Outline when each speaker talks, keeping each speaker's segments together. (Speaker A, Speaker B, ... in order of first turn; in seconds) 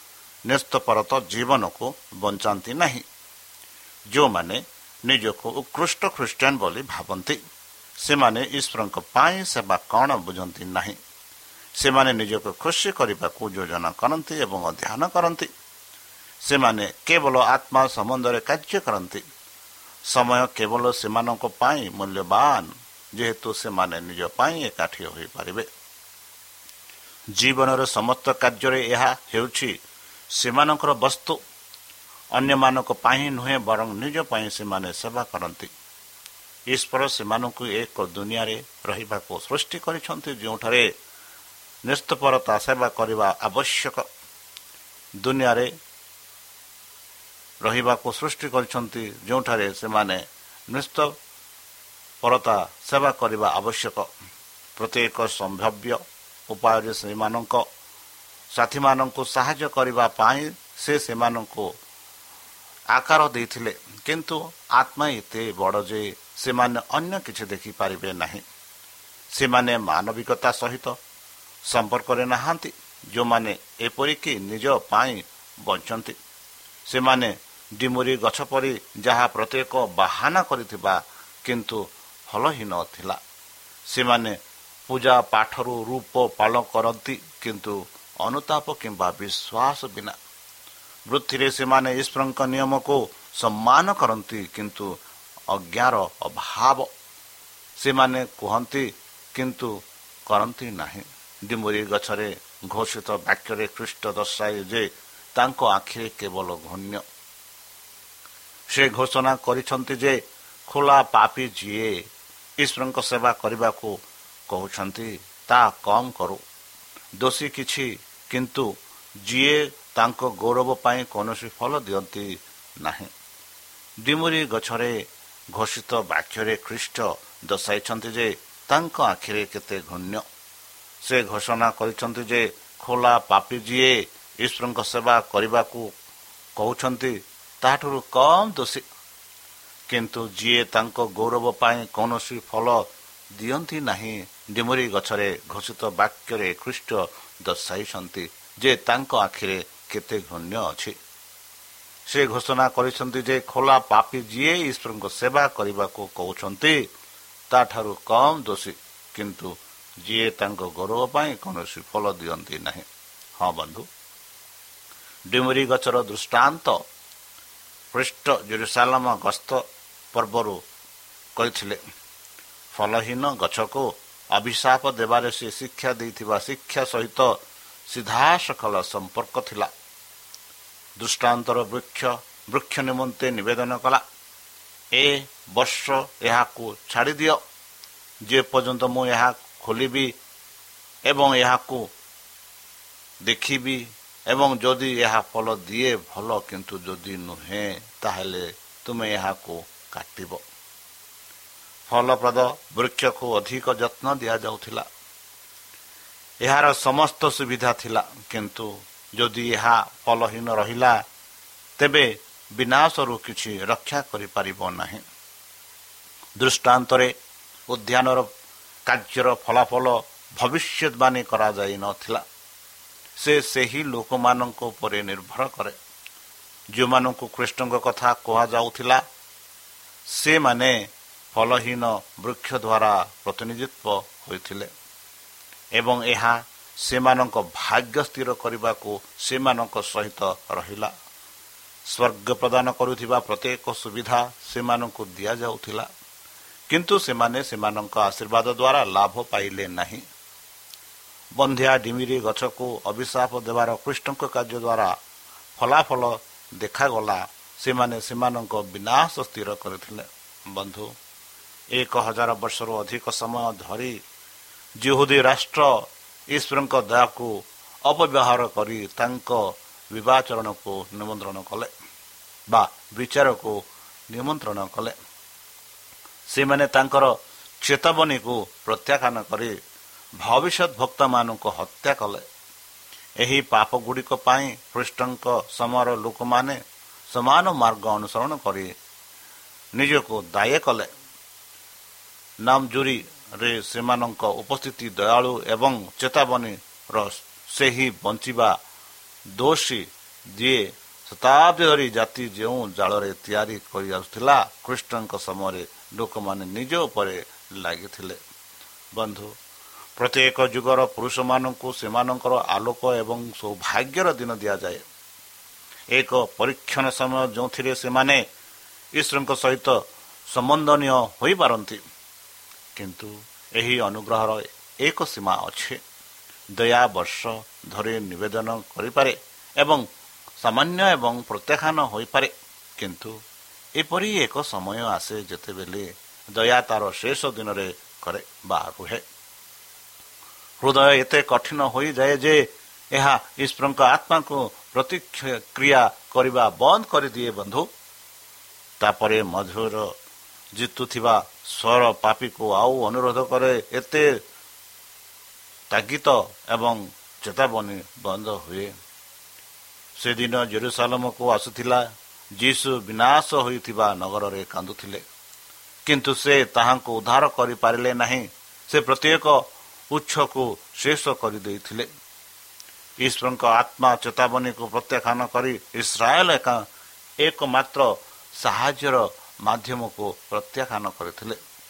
Speaker A: 0.5-3.0, 4.1-7.4, 8.0-11.0, 11.8-15.5, 16.4-19.2, 20.1-25.7, 27.4-29.8, 30.3-31.4, 32.3-35.7, 36.7-40.9, 41.9-44.1, 45.2-45.7, 47.6-51.2, 52.2-54.1, 54.8-57.6, 58.5-61.7, 62.9-68.4, 69.3-71.0, 71.7-76.2, 76.9-83.2, 83.9-84.4, 84.9-90.2, 91.1-95.0, 95.5-96.9, 97.8-99.8, 100.3-107.0, 108.7-112.0, 112.6-114.0, 114.5-116.4, 117.2-118.7, 119.2-123.1, 124.0-125.0, 125.5-130.2, 131.0-135.9, 136.6-138.8, 139.9-150.9, 152.1-156.8, 157.5-162.8, 163.4-163.9, 165.3-166.8, 167.9-170.6, 171.4-171.8, 172.7-179.7, 181.0-184.0, 184.9-187.4, 188.3-190.1, 191.1-191.9, 193.2-200.4, 201.9-204.9, 206.4-211.0, 211.8-215.0, 216.4-217.1, 217.7-218.3, 218.9-222.2, 223.2-225.8, 226.7-229.0, 230.1-230.8, 231.3-234.7, 235.8-240.9, 241.9-245.9, 246.7-250.0, 251.4-255.0, 255.6-260.9, 261.8-264.0, 264.8-265.7, 266.3-271.7, 272.5-273.6, 274.1-274.9, 276.3-279.5, 280.2-282.2, 283.2-286.6, 287.1-288.7, 289.8-290.9, 292.4-298.6, 299.4-308.2, 308.9-309.3, 310.0-314.8, 315.9-318.2, 319.0-321.8, 322.8-325.8, 326.6-329.8, 330.4-333.1, 333.8-339.0, 340.6-347.7, 348.8-349.9, 350.6-354.1, 355.7-358.7, 360.0-361.9, 362.4-365.0, 365.9-371.9, 373.0-376.6, 377.2-381.4